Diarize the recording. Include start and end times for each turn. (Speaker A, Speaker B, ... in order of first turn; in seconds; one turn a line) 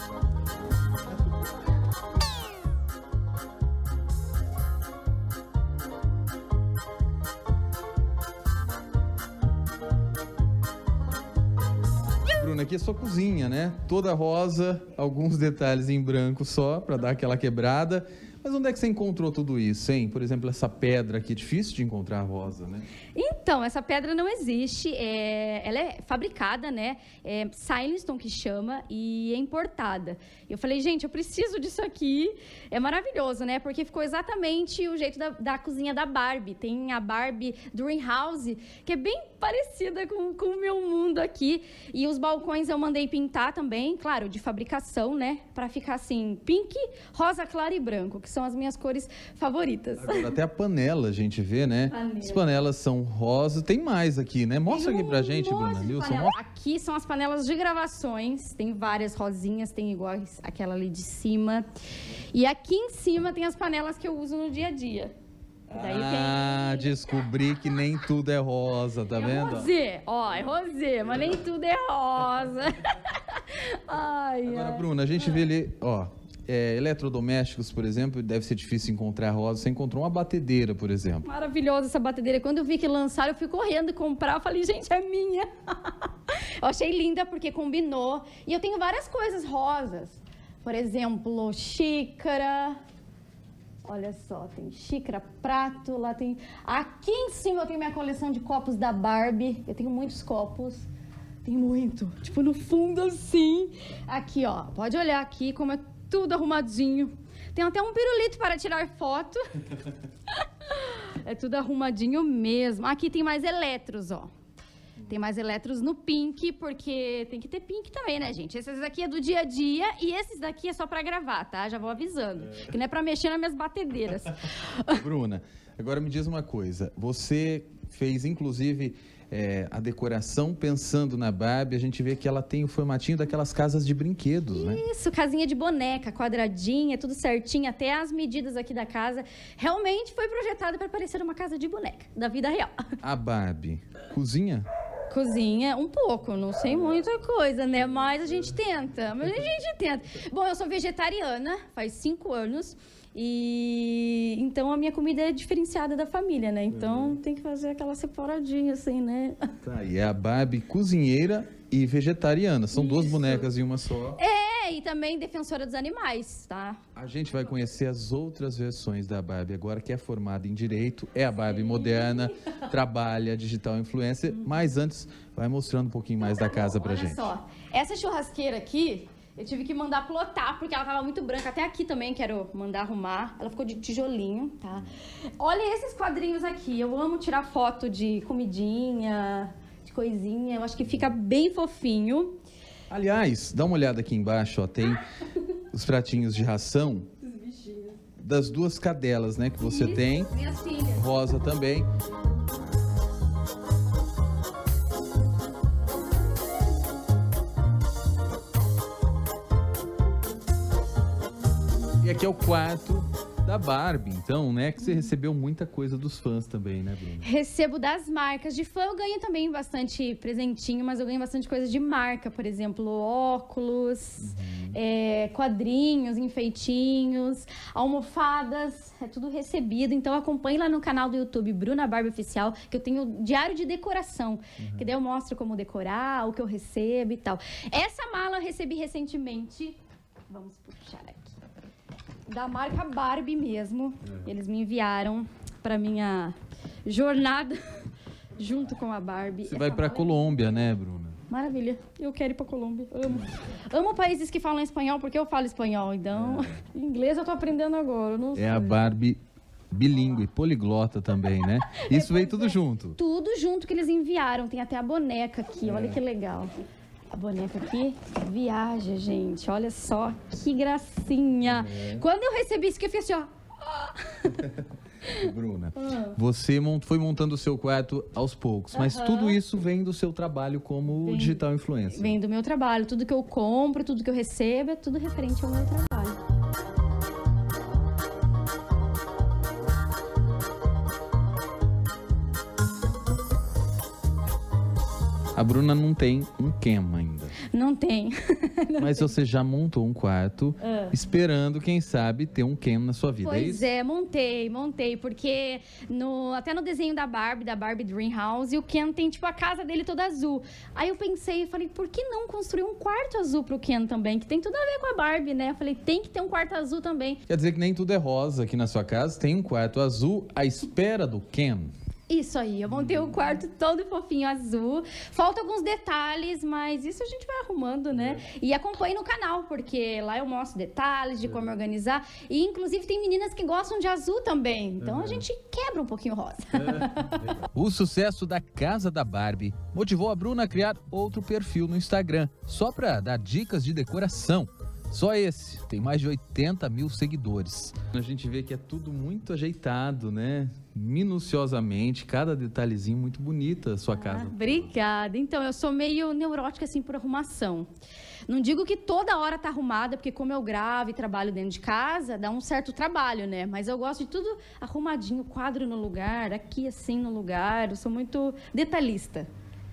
Speaker A: 12.4-22.9
Speaker B: 23.2-50.3
Speaker A: 50.0-56.3
Speaker B: 51.9-52.5
Speaker B: 54.7-61.7
Speaker B: 62.3-65.1
Speaker B: 65.7-66.9
Speaker A: 65.7-69.7
Speaker B: 69.2-75.4
Speaker A: 74.4-81.3
Speaker B: 81.2-92.8
Speaker B: 93.8-100.8
Speaker B: 101.4-109.4
Speaker B: 110.3-114.3
Speaker B: 115.1-125.0
Speaker A: 124.9-134.8
Speaker B: 134.5-142.7
Speaker A: 143.0-144.7
Speaker B: 145.1-159.5
Speaker A: 159.6-164.2
Speaker B: 162.7-163.5
Speaker B: 164.2-166.8
Speaker A: 166.9-177.3
Speaker B: 171.4-172.3
Speaker B: 176.2-192.3
Speaker A: 192.9-195.0
Speaker A: 195.7-197.1
Speaker B: 197.2-198.0
Speaker A: 198.2-200.3
Speaker B: 199.6-201.1
Speaker A: 200.9-201.9
Speaker A: 212.0-217.3
Speaker B: 214.8-215.1
Speaker B: 217.2-239.8
Speaker A: 224.2-224.8
Speaker A: 234.6-234.9
Speaker B: 240.3-241.3
Speaker B: 242.3-247.6
Speaker B: 248.4-250.2
Speaker A: 249.5-251.2
Speaker B: 251.3-258.8
Speaker A: 256.2-256.5
Speaker A: 258.4-259.2
Speaker A: 259.7-263.0
Speaker B: 261.6-266.5
Speaker A: 265.7-266.0
Speaker B: 267.1-274.4
Speaker A: 271.5-272.0
Speaker A: 274.4-282.1
Speaker B: 275.1-276.1
Speaker B: 278.7-279.4
Speaker B: 281.0-286.2
Speaker A: 295.4-297.4
Speaker B: 297.5-299.1
Speaker A: 298.8-303.6
Speaker B: 300.6-300.9
Speaker B: 303.2-317.2
Speaker A: 317.3-321.7
Speaker B: 322.1-337.2
Speaker A: 337.3-354.7
Speaker B: 353.9-357.7
Speaker B: 358.3-369.3